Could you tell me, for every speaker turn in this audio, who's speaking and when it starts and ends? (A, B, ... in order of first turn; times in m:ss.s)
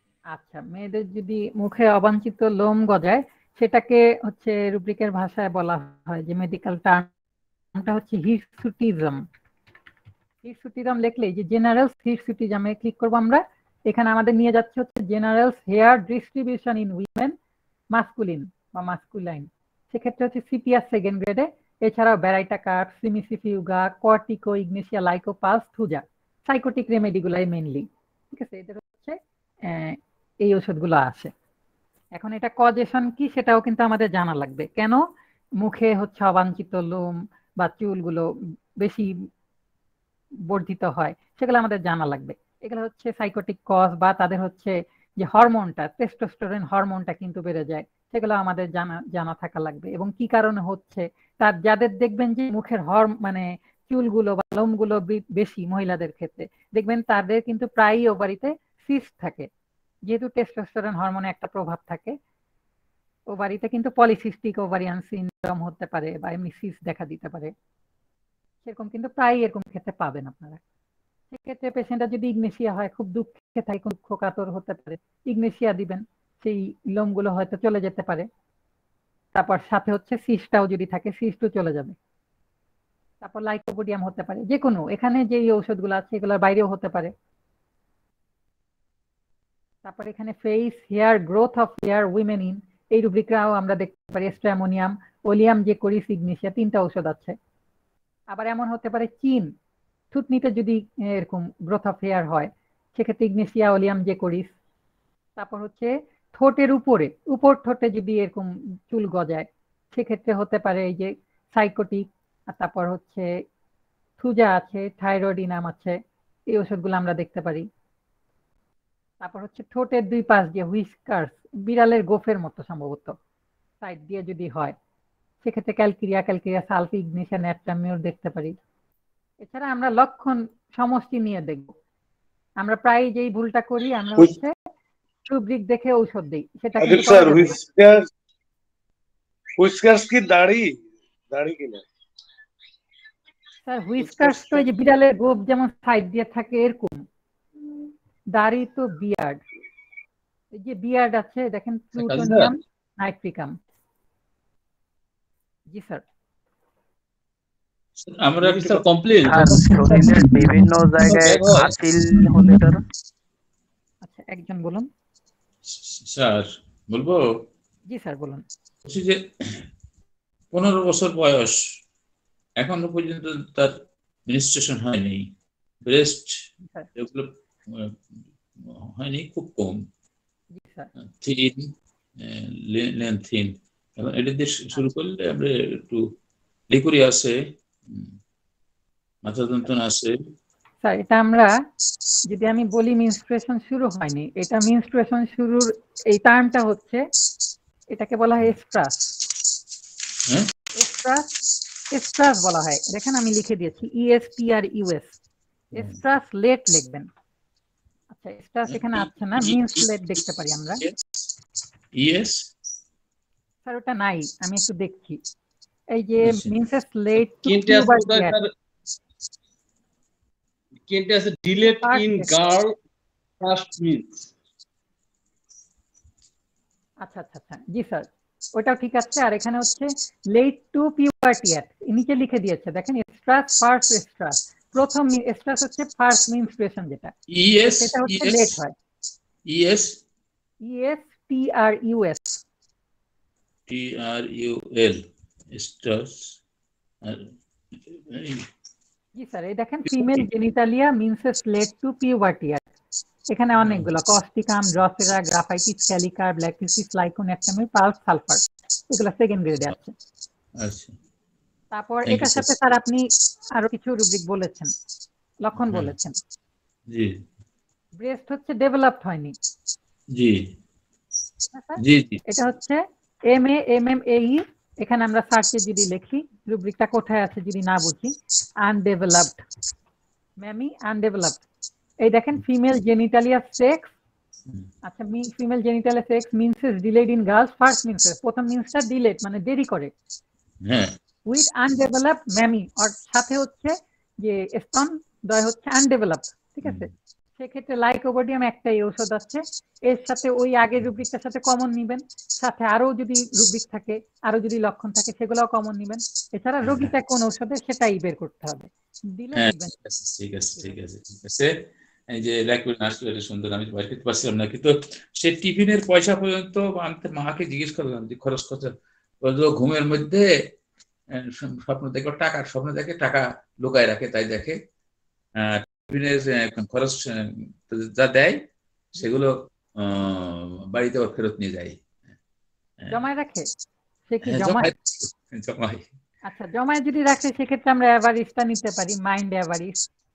0:00.3-0:07.1 A
0:07.8-0:09.2 A
0:10.4-0:17.3 A
0:17.9-0:31.3 A
0:32.2-0:35.0 A
0:35.6-0:37.1 A
0:37.6-0:38.3 A
0:38.8-0:39.1 A
0:40.5-0:59.5 A
1:00.1-1:02.1 A
1:03.3-1:07.5 A
1:08.6-1:10.6 A
1:11.3-1:18.3 A
1:19.3-1:21.9 A
1:23.2-1:27.1 A
1:29.8-1:37.4 A
1:38.3-1:39.5 A
1:40.1-1:44.5 A
1:45.4-1:53.3 A
1:54.2-1:56.0 A
1:56.5-1:57.6 A
1:59.2-2:03.1 A
2:03.8-2:04.7 A
2:05.4-2:08.5 A
2:09.4-2:11.7 A
2:12.6-2:14.5 A
2:15.2-2:17.6 A
2:16.8-2:18.0 B
2:19.6-2:21.8 B
2:23.7-2:27.0 A
2:28.3-2:29.4 A
2:30.6-2:33.6 A
2:32.0-2:32.5 C
2:35.7-2:36.0 A
2:38.0-2:40.0 D
2:38.4-2:40.1 C
2:39.2-2:42.8 E
2:41.0-2:41.7 C
2:41.1-2:41.7 D
2:44.0-2:44.9 A
2:45.7-2:47.2 D
2:47.9-2:48.4 A
2:48.8-2:49.6 D
2:50.5-2:51.6 D
2:52.6-2:53.7 D
2:54.3-2:55.3 D
2:55.8-2:56.3 D
2:57.0-2:58.0 D
2:58.7-2:59.8 D
3:00.5-3:00.9 A
3:01.2-3:06.0 D
3:06.7-3:08.1 D
3:09.2-3:10.2 D
3:10.8-3:11.5 A
3:12.3-3:17.0 A
3:17.9-3:19.1 A
3:20.7-3:21.3 A
3:21.9-3:25.2 A
3:25.7-3:27.1 A
3:28.1-3:30.8 A
3:28.7-3:29.9 D
3:31.9-3:32.5 D
3:33.6-3:35.2 A
3:35.9-3:38.4 A
3:36.2-3:36.5 D
3:37.4-3:38.5 C
3:40.9-3:42.7 C
3:41.6-3:42.3 A
3:43.4-3:44.3 C
3:47.0-3:57.1 A
3:57.3-3:58.6 D
3:57.7-3:58.7 A
3:59.4-4:00.0 D
4:00.6-4:02.4 A
4:03.7-4:06.4 D
4:07.0-4:08.5 D
4:09.2-4:12.7 A
4:09.8-4:10.2 D
4:13.3-4:19.9 A
4:13.6-4:13.9 D
4:20.6-4:21.0 D
4:21.7-4:24.7 A
4:22.0-4:22.5 D
4:25.4-4:26.2 A
4:25.6-4:25.9 D
4:26.9-4:27.2 D
4:28.0-4:29.3 A
4:30.1-4:30.5 D
4:31.5-4:39.4 A
4:31.8-4:32.2 D
4:40.4-4:41.4 A
4:42.0-4:43.9 A
4:44.8-4:49.9 A
4:50.6-4:51.0 D
4:51.3-5:09.7 A
4:56.6-4:56.9 D
5:06.6-5:06.9 D
5:09.3-5:11.5 D
5:12.1-5:20.3 D
5:21.1-5:24.6 D
5:25.4-5:28.4 D
5:29.0-5:31.8 D
5:32.9-5:33.4 A
5:34.1-5:34.7 A
5:34.2-5:35.8 D
5:36.2-5:39.8 A